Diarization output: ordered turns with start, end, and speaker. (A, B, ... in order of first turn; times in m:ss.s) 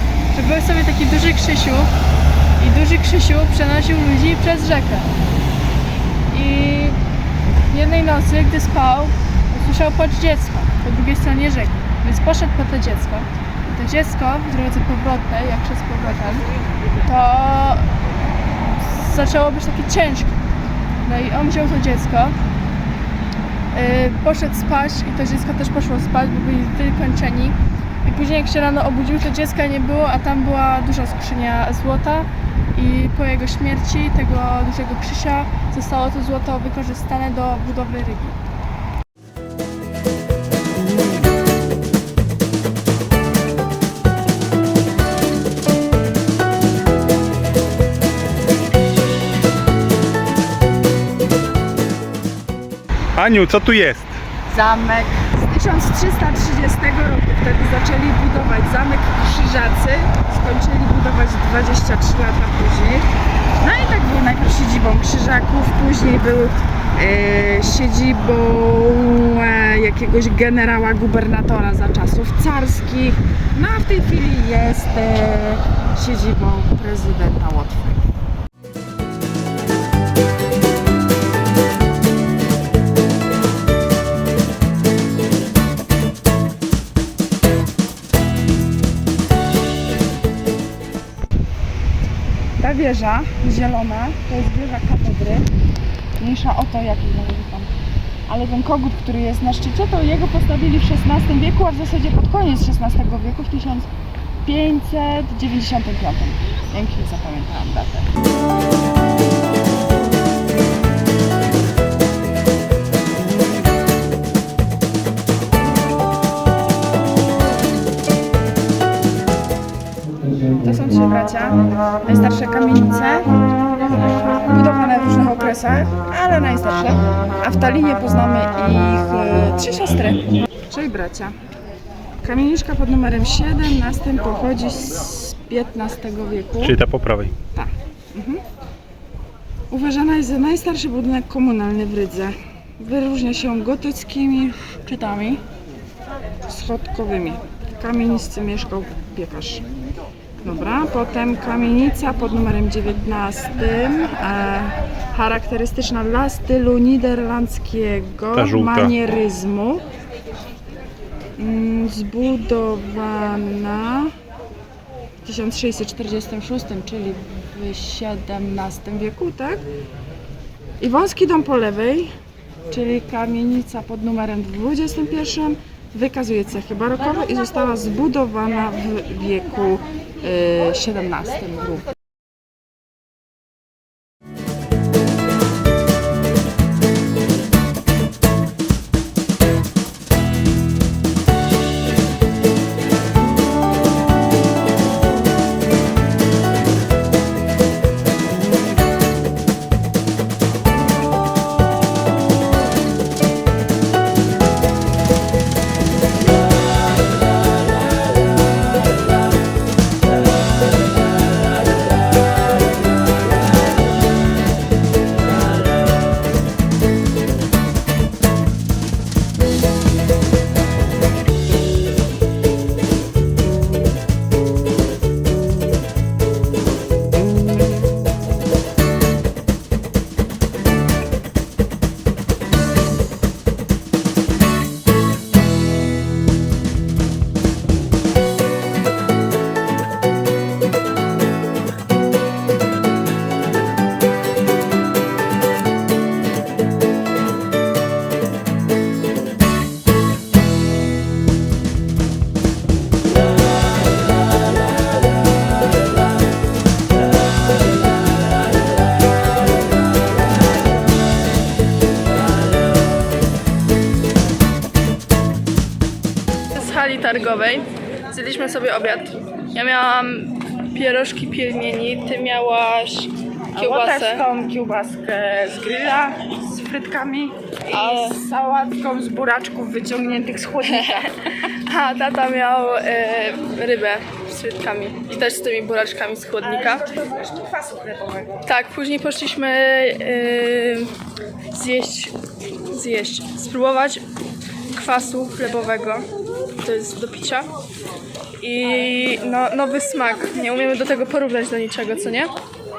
0:00.3-0:01.9 A
0:02.6-0:05.1 A
0:06.3-0:07.0 A
0:07.7-0:18.0 A
0:18.6-0:20.3 A
0:21.0-0:22.4 A
0:23.7-0:38.4 A
0:53.2-0:54.2 B
0:54.5-1:03.1 C
1:03.6-1:18.0 C
1:32.6-1:35.5 C
1:36.2-1:37.7 C
1:38.3-1:43.9 C
1:44.4-1:48.1 C
2:00.5-2:03.3 C
2:04.2-2:11.4 C
2:12.2-2:16.8 C
2:16.6-2:17.3 B
2:17.5-2:18.4 C
2:19.7-2:25.4 C
2:26.5-2:29.6 C
2:30.4-2:39.8 C
2:38.4-2:38.9 B
2:41.4-2:44.1 C
2:45.2-2:49.6 C
2:50.8-2:52.1 C
2:52.7-3:01.9 C
4:26.5-4:34.3 A
4:33.6-4:41.2 C
4:37.7-4:38.2 A
4:40.6-4:46.9 A
4:46.4-4:48.4 C
4:48.4-4:50.9 A
4:51.5-4:52.1 A
4:52.7-4:54.0 A
4:54.7-4:56.0 A
4:56.6-4:57.5 A
4:58.4-5:02.3 A